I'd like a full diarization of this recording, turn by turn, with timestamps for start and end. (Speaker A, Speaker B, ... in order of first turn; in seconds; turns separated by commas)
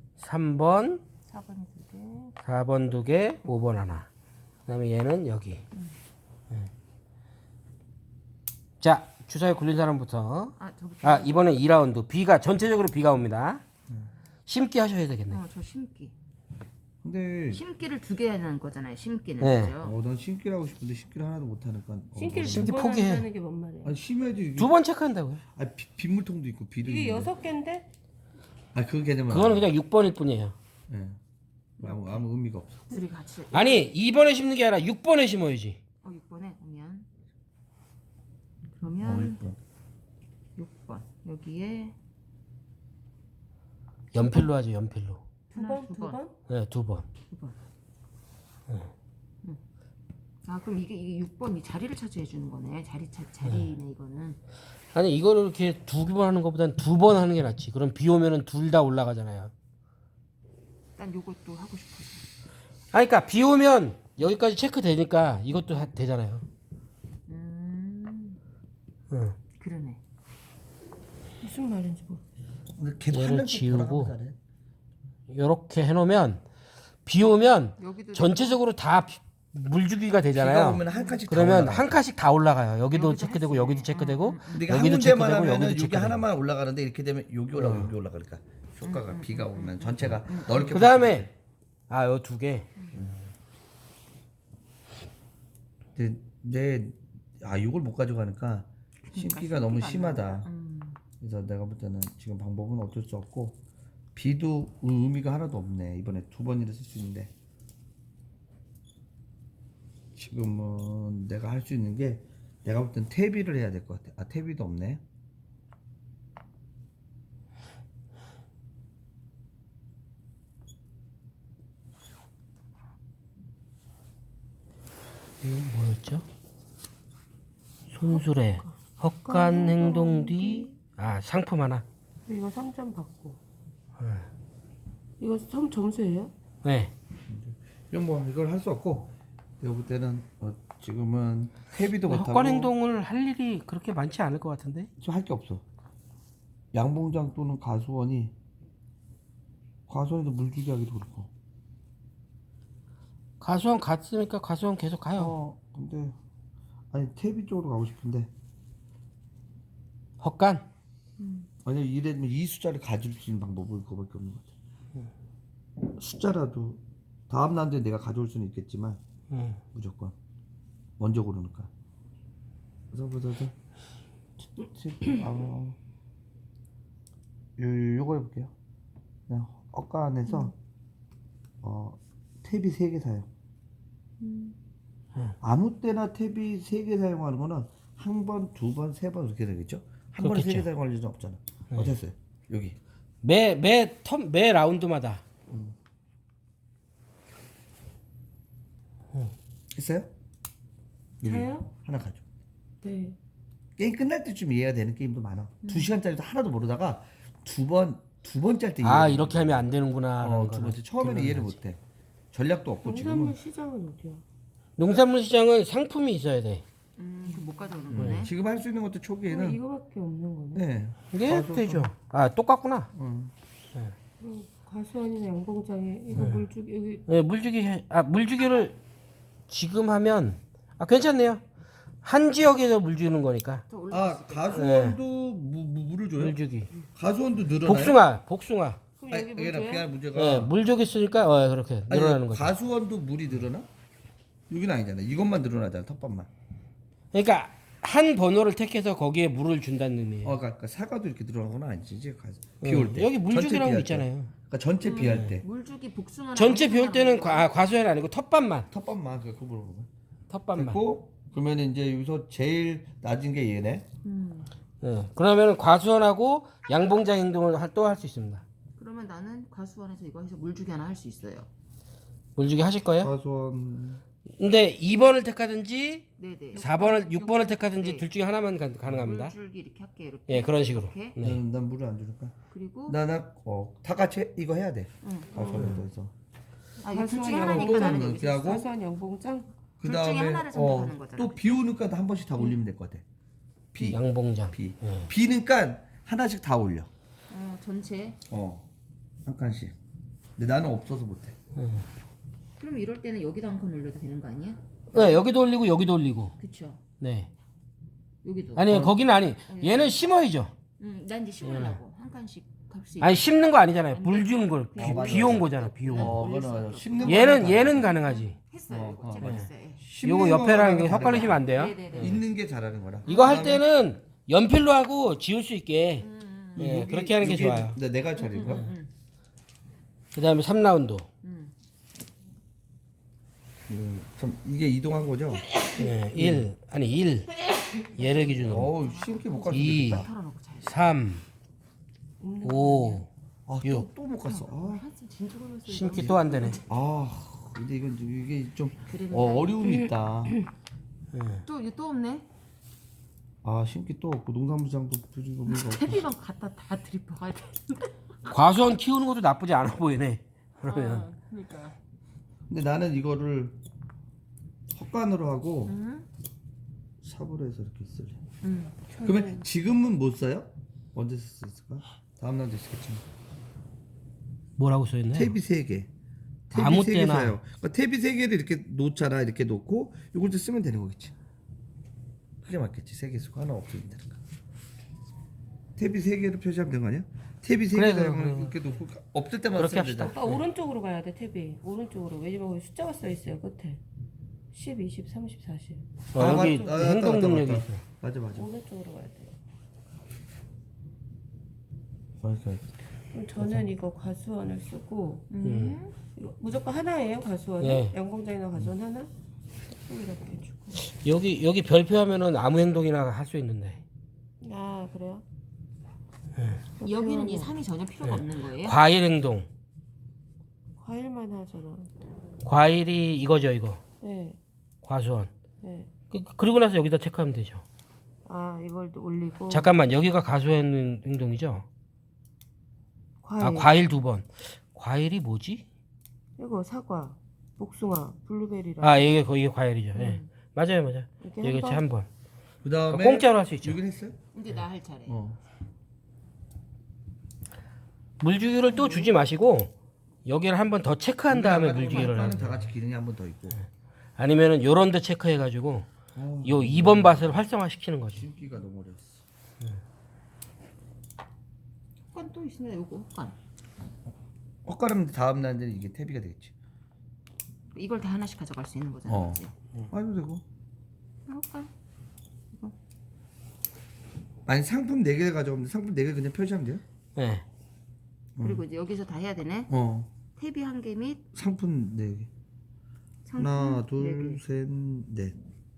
Speaker A: 0.2-1.0, Speaker B: 1.3-2.4, Speaker A: 2.4-4.1, Speaker A: 4.7-5.6, Speaker A: 8.8-13.6, Speaker B: 10.6-11.4, Speaker A: 14.4-15.4, Speaker B: 15.3-16.1, Speaker C: 17.0-17.6, Speaker B: 17.5-19.9, Speaker A: 19.4-19.7, Speaker C: 19.8-22.7, Speaker D: 22.1-23.9, Speaker A: 22.4-23.2, Speaker C: 23.8-24.7, Speaker A: 24.6-25.4, Speaker C: 25.5-27.3, Speaker D: 26.8-27.9, Speaker C: 28.7-29.7, Speaker A: 29.3-30.5, Speaker C: 30.9-31.2, Speaker B: 31.8-32.3, Speaker C: 31.8-32.8, Speaker B: 32.9-33.9, Speaker A: 33.5-35.8, Speaker B: 36.0-37.1, Speaker B: 38.8-39.4, Speaker C: 39.0-39.6, Speaker B: 40.5-42.0, Speaker A: 44.1-45.2, Speaker D: 45.5-46.4, Speaker B: 45.5-46.2, Speaker A: 46.5-47.0, Speaker B: 47.3-47.5, Speaker B: 50.4-54.4, Speaker A: 54.9-59.5, Speaker B: 61.0-62.2, Speaker A: 62.9-66.4, Speaker B: 67.3-68.4, Speaker A: 69.1-69.4, Speaker B: 69.6-70.0, Speaker D: 71.4-72.2, Speaker C: 72.8-74.4, Speaker A: 73.1-74.1, Speaker A: 75.3-76.4, Speaker A: 77.0-86.2, Speaker B: 77.8-78.6, Speaker C: 80.3-82.0, Speaker B: 80.9-81.2, Speaker B: 82.9-84.7, Speaker C: 84.5-91.3, Speaker A: 87.5-87.9, Speaker B: 88.8-90.7, Speaker A: 90.6-91.3, Speaker A: 91.9-93.1, Speaker C: 96.0-100.5, Speaker B: 99.1-101.0, Speaker C: 101.2-103.6, Speaker C: 104.1-107.3, Speaker C: 110.2-115.0, Speaker A: 125.4-126.2, Speaker A: 127.9-131.8, Speaker D: 128.0-128.7, Speaker D: 129.2-130.7, Speaker D: 132.3-133.4, Speaker A: 134.0-134.3, Speaker D: 135.2-136.3, Speaker A: 136.6-136.9, Speaker C: 137.3-142.7, Speaker A: 142.1-144.9, Speaker C: 145.0-145.6, Speaker C: 146.7-148.3, Speaker C: 149.9-151.3, Speaker A: 153.4-155.3, Speaker C: 155.2-156.2, Speaker C: 156.9-158.3, Speaker A: 160.2-160.7, Speaker B: 161.2-161.5, Speaker C: 161.6-164.5, Speaker C: 165.9-169.0, Speaker A: 169.3-169.6, Speaker C: 169.7-170.1, Speaker C: 171.0-171.7, Speaker C: 172.9-173.5, Speaker C: 174.6-175.8, Speaker C: 177.6-178.5, Speaker C: 179.3-180.5, Speaker C: 181.6-183.3, Speaker B: 184.2-184.6, Speaker C: 185.4-192.8, Speaker A: 190.2-190.7, Speaker A: 193.2-195.2, Speaker C: 195.5-195.7, Speaker C: 199.7-200.1, Speaker C: 201.2-202.2, Speaker D: 201.2-201.7, Speaker D: 202.8-203.2, Speaker C: 203.8-209.7, Speaker B: 205.6-205.9, Speaker A: 208.8-211.6, Speaker C: 210.2-211.8, Speaker C: 212.3-213.4, Speaker D: 212.8-214.2, Speaker A: 214.8-216.6, Speaker B: 217.0-218.3, Speaker C: 217.9-219.6, Speaker A: 217.9-218.3, Speaker D: 219.3-220.6, Speaker C: 220.5-221.9, Speaker A: 221.1-222.9, Speaker C: 222.9-223.3, Speaker D: 224.2-227.0, Speaker A: 226.1-226.4, Speaker A: 227.1-228.8, Speaker A: 229.5-231.4, Speaker A: 232.0-233.6, Speaker B: 233.7-234.7, Speaker C: 233.9-236.4, Speaker A: 234.5-235.0, Speaker A: 236.2-236.7, Speaker C: 236.9-238.0, Speaker A: 237.6-238.8, Speaker D: 239.0-239.9, Speaker C: 239.1-240.5, Speaker A: 240.1-242.5, Speaker C: 241.9-243.7, Speaker C: 244.5-246.3, Speaker A: 247.1-250.3, Speaker C: 250.2-255.4, Speaker A: 252.6-254.3, Speaker B: 254.8-257.5, Speaker A: 255.0-255.3, Speaker A: 256.3-258.7, Speaker C: 258.7-259.9, Speaker A: 260.3-260.8, Speaker C: 260.5-263.9, Speaker B: 264.0-264.5, Speaker A: 264.8-268.4, Speaker B: 268.8-271.5, Speaker A: 272.4-273.1, Speaker C: 273.0-274.0, Speaker A: 274.4-279.3, Speaker B: 276.2-278.1, Speaker B: 278.8-281.2, Speaker A: 280.3-281.4, Speaker C: 281.2-286.1, Speaker B: 282.5-283.0, Speaker B: 285.0-285.8, Speaker D: 285.4-285.8, Speaker B: 286.8-288.7, Speaker D: 286.8-289.5, Speaker C: 287.4-288.7, Speaker C: 289.8-293.0, Speaker B: 289.8-291.6, Speaker C: 293.7-296.9, Speaker A: 293.8-295.1, Speaker B: 297.3-298.2, Speaker C: 298.3-298.7, Speaker C: 299.2-299.7, Speaker C: 300.4-301.3, Speaker A: 301.6-301.8, Speaker B: 302.6-305.1, Speaker A: 304.9-306.3, Speaker B: 306.4-306.8, Speaker A: 307.0-307.3, Speaker B: 308.2-308.9, Speaker A: 308.6-310.5, Speaker C: 308.7-308.9, Speaker B: 309.5-310.0, Speaker B: 310.8-313.4, Speaker A: 311.4-311.8, Speaker A: 313.0-316.2, Speaker B: 313.9-319.8, Speaker C: 314.8-317.9, Speaker A: 317.0-318.4, Speaker C: 318.7-321.4, Speaker A: 319.2-319.5, Speaker A: 320.0-322.2, Speaker B: 320.8-322.2, Speaker C: 321.9-323.6, Speaker B: 323.0-323.6, Speaker A: 323.1-327.8, Speaker B: 326.0-326.7, Speaker C: 326.6-328.7, Speaker B: 328.2-328.9, Speaker A: 330.1-331.1, Speaker B: 331.2-331.5, Speaker C: 333.7-336.5, Speaker A: 335.8-337.3, Speaker B: 337.9-340.8, Speaker A: 337.9-338.7, Speaker C: 338.4-340.1, Speaker A: 339.5-340.1, Speaker A: 340.6-341.2, Speaker D: 342.2-343.0, Speaker A: 342.4-343.1, Speaker C: 343.5-344.8, Speaker B: 343.6-346.7, Speaker A: 345.7-346.6, Speaker C: 345.9-350.4, Speaker B: 348.9-349.7, Speaker A: 351.1-351.4, Speaker B: 351.4-352.3, Speaker C: 353.4-356.0, Speaker B: 355.5-357.9, Speaker A: 358.3-361.1, Speaker B: 360.6-361.7, Speaker C: 362.5-363.6, Speaker C: 364.7-365.7, Speaker B: 365.6-366.1, Speaker C: 367.0-368.2, Speaker B: 368.4-368.8, Speaker D: 368.9-369.4, Speaker C: 369.0-373.0, Speaker A: 374.6-375.4, Speaker C: 375.1-375.9, Speaker C: 376.5-381.1, Speaker A: 376.5-377.4, Speaker C: 382.4-384.2, Speaker C: 385.8-390.2, Speaker A: 387.7-388.6, Speaker A: 389.6-390.4, Speaker D: 390.1-393.8, Speaker D: 394.5-396.5, Speaker A: 396.1-397.8, Speaker C: 396.1-398.5, Speaker D: 398.3-399.4, Speaker C: 402.2-402.7, Speaker D: 403.1-405.3, Speaker C: 403.4-403.6, Speaker B: 405.3-405.9, Speaker A: 405.4-405.8, Speaker D: 406.1-409.1, Speaker A: 407.6-408.0, Speaker D: 409.7-410.8, Speaker A: 410.7-413.8, Speaker D: 414.4-415.2, Speaker D: 416.8-417.5, Speaker B: 416.8-418.8, Speaker A: 418.1-419.5, Speaker D: 420.8-421.9, Speaker A: 422.4-423.8, Speaker D: 424.0-424.4, Speaker A: 424.8-425.3, Speaker D: 425.6-425.9, Speaker A: 426.1-427.6, Speaker D: 428.2-429.7, Speaker A: 429.5-431.6, Speaker D: 433.2-433.7, Speaker A: 433.4-435.6, Speaker D: 436.4-439.1, Speaker A: 438.8-442.1, Speaker B: 439.9-440.3, Speaker D: 441.2-441.8, Speaker C: 442.6-444.1, Speaker A: 442.9-443.8, Speaker B: 444.3-445.2, Speaker C: 445.1-445.4, Speaker A: 448.2-449.7, Speaker A: 450.2-452.7, Speaker C: 451.3-453.6, Speaker B: 451.9-452.4, Speaker A: 454.2-455.9, Speaker C: 456.1-457.4, Speaker A: 456.4-458.2, Speaker C: 458.1-459.2, Speaker B: 462.1-463.4, Speaker C: 464.6-466.5, Speaker B: 467.7-469.5, Speaker C: 469.1-470.4, Speaker B: 471.3-471.7, Speaker C: 474.4-476.8, Speaker A: 477.1-477.4, Speaker C: 478.4-478.6, Speaker B: 478.4-479.7, Speaker C: 479.7-480.1, Speaker B: 480.4-481.2, Speaker C: 481.3-482.3, Speaker B: 483.2-484.4, Speaker C: 483.4-485.4